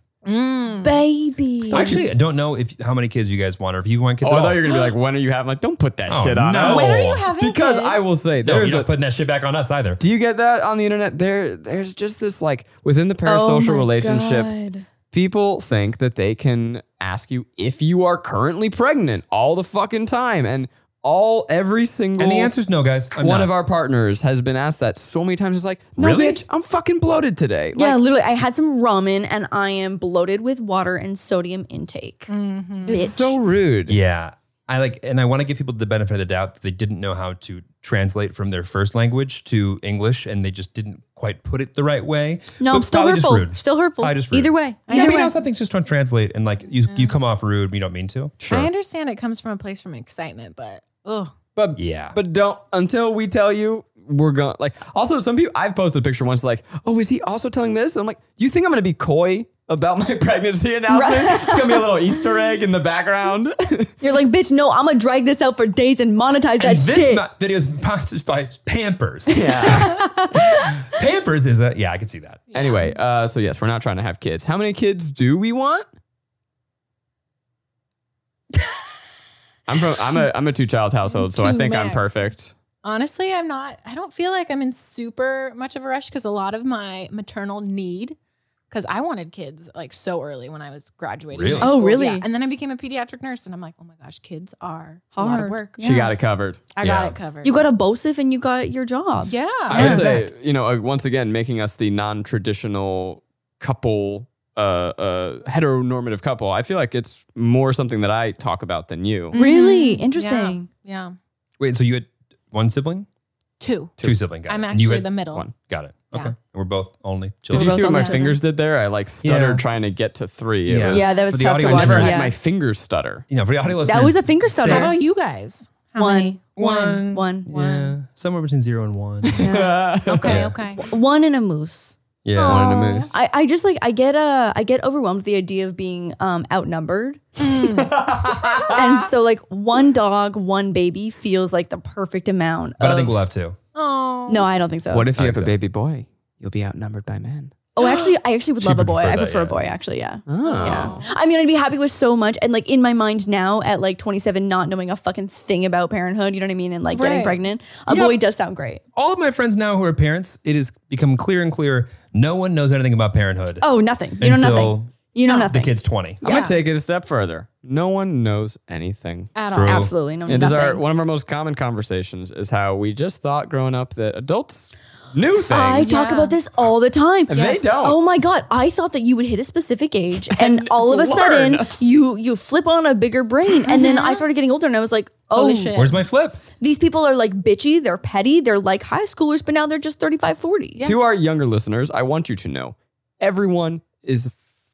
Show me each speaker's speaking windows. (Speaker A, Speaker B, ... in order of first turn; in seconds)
Speaker A: 0.2-1.0, 6.6-8.0, 32.3-33.1, 44.9-45.4, 46.9-47.1, 48.5-51.4, 72.5-73.0, 81.1-88.2, 88.7-95.8, 96.7-97.7, 99.2-100.0, 109.3-111.2, 113.6-115.5, 117.9-118.2, 124.7-127.9, 130.1-130.8, 132.3-133.2, 137.4-137.9, 143.8-144.5, 147.8-148.1, 150.4-151.2, 156.9-157.4, 165.2-165.5, 166.2-166.6, 169.3-169.9, 175.8-176.4, 183.6-184.3, 185.3-186.1
Speaker B: 0.8-2.1, 13.2-14.9, 27.8-32.3, 32.9-33.4, 42.6-45.4, 60.9-62.2, 64.0-67.2, 69.9-70.2, 91.6-92.3, 95.2-96.1, 97.4-99.3, 109.3-110.7, 117.5-118.4, 120.9-122.3, 123.8-125.0, 126.0-126.4, 127.1-127.5, 129.4-129.8, 130.8-132.0, 133.1-137.8, 138.5-143.3, 144.3-145.1, 147.8-158.8, 163.6-165.7, 169.6-170.8, 175.5-185.8, 186.6-190.9
Speaker C: 1.7-4.6, 6.1-7.3, 8.4-10.0, 22.2-23.5, 26.0-26.4, 33.9-48.4, 51.8-52.2, 66.6-69.9, 70.8-72.4, 91.3-91.8, 96.8-97.2, 99.7-100.3, 111.6-113.1, 114.0-117.9, 119.2-119.6, 120.7-122.3, 123.3-125.0, 126.6-129.5, 130.2-130.8, 132.2-132.8, 142.8-143.6, 145.2-145.5, 148.6-149.7, 157.9-158.2, 158.9-163.7, 164.2-164.9, 165.5-166.2, 169.5-169.9, 185.7-186.4
Speaker D: 4.2-8.9, 10.0-14.5, 15.1-22.6, 23.2-28.0, 32.9-34.0, 48.4-48.7, 51.6-64.0, 69.3-70.0, 72.5-75.9, 79.7-82.5, 95.8-96.6, 99.7-109.4, 117.5-123.2, 129.2-130.5, 132.5-133.1, 137.8-138.8, 144.9-147.5, 150.3-151.0, 166.2-169.3, 170.3-175.9, 177.3-178.0, 180.3-181.8, 190.8-194.3